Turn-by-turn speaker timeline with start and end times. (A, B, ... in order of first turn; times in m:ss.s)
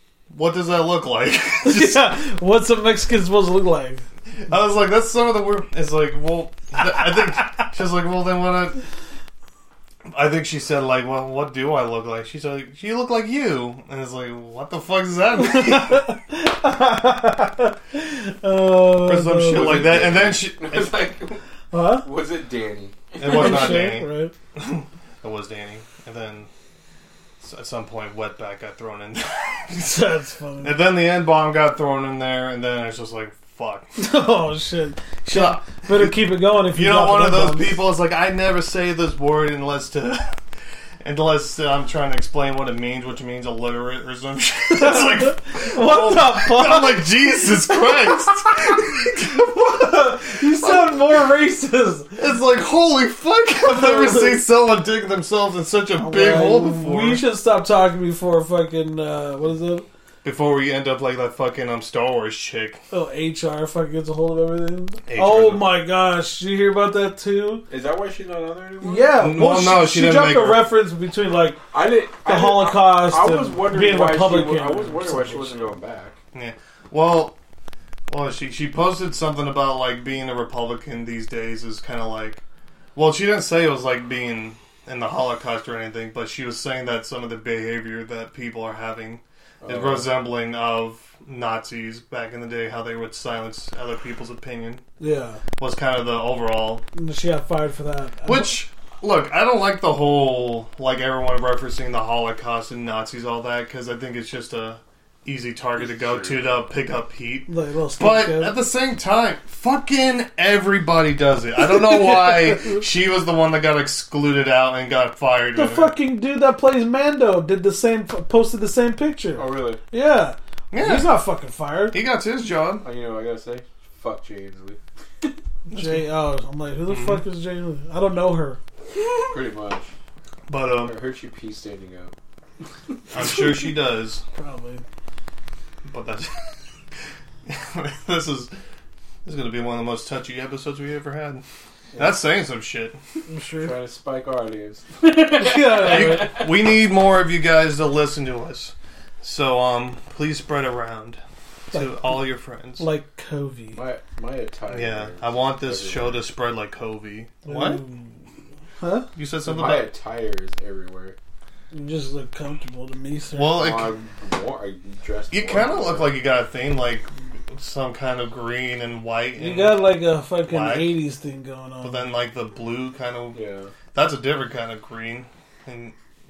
0:00.3-0:02.2 A
0:01.6-0:04.1 B
0:04.4-0:08.8 A
0:10.1-0:16.1 A
0:15.4-0:20.0 B
0:19.0-0:21.2 A
0:19.5-0:21.4 C
0:21.7-0:22.1 B
0:22.0-0:23.8 C
0:23.2-0:26.5 A
0:23.2-0:24.3 B
0:27.4-0:30.0 A
0:29.8-0:30.8 B
0:30.6-0:33.9 A
0:34.0-0:37.8 B
0:35.3-0:40.4 A
0:41.0-0:49.4 A
0:44.7-0:52.3 B
0:52.2-0:57.3 A
0:53.6-0:54.4 B
0:56.0-0:59.8 B
1:00.2-1:02.8 A
1:02.9-1:07.7 B
1:05.1-1:05.7 A
1:07.7-1:09.3 C
1:08.8-1:11.6 B
1:09.1-1:10.7 A
1:11.7-1:16.2 C
1:12.2-1:15.6 B
1:16.3-1:17.4 A
1:18.1-1:22.4 A
1:22.9-1:34.8 A
1:29.6-1:30.1 C
1:35.0-1:35.4 B
1:35.6-1:36.8 A
1:36.9-1:38.6 B
1:38.2-1:56.0 A
1:45.8-1:46.6 C
1:47.5-1:48.6 B
1:55.5-2:02.0 B
1:59.4-1:59.8 C
2:00.7-2:01.2 A
2:01.9-2:02.8 A
2:02.8-2:04.8 C
2:05.7-2:06.1 A
2:05.7-2:08.6 B
2:06.9-2:07.2 A
2:09.3-2:09.9 C
2:10.5-2:11.0 A
2:10.7-2:12.1 C
2:13.1-2:14.2 A
2:14.3-2:14.8 B
2:15.8-2:16.5 A
2:17.4-2:18.5 A
2:19.2-2:23.0 A
2:21.9-2:22.2 C
2:23.3-2:23.8 B
2:23.6-2:26.5 C
2:25.3-2:26.4 B
2:25.7-2:32.9 A
2:31.7-2:32.2 B
2:32.8-2:33.8 B
2:33.7-2:36.2 C
2:34.7-2:37.8 A
2:37.4-2:38.1 B
2:38.8-2:39.1 B
2:39.1-2:39.9 A
2:39.4-2:41.2 C
2:41.7-2:43.6 B
2:43.3-2:44.0 A
2:43.5-2:46.2 C
2:45.3-2:49.9 A
2:49.4-2:52.1 B
2:50.4-2:51.0 A
2:51.8-2:53.4 A
2:53.3-2:53.7 C
2:53.9-2:55.9 A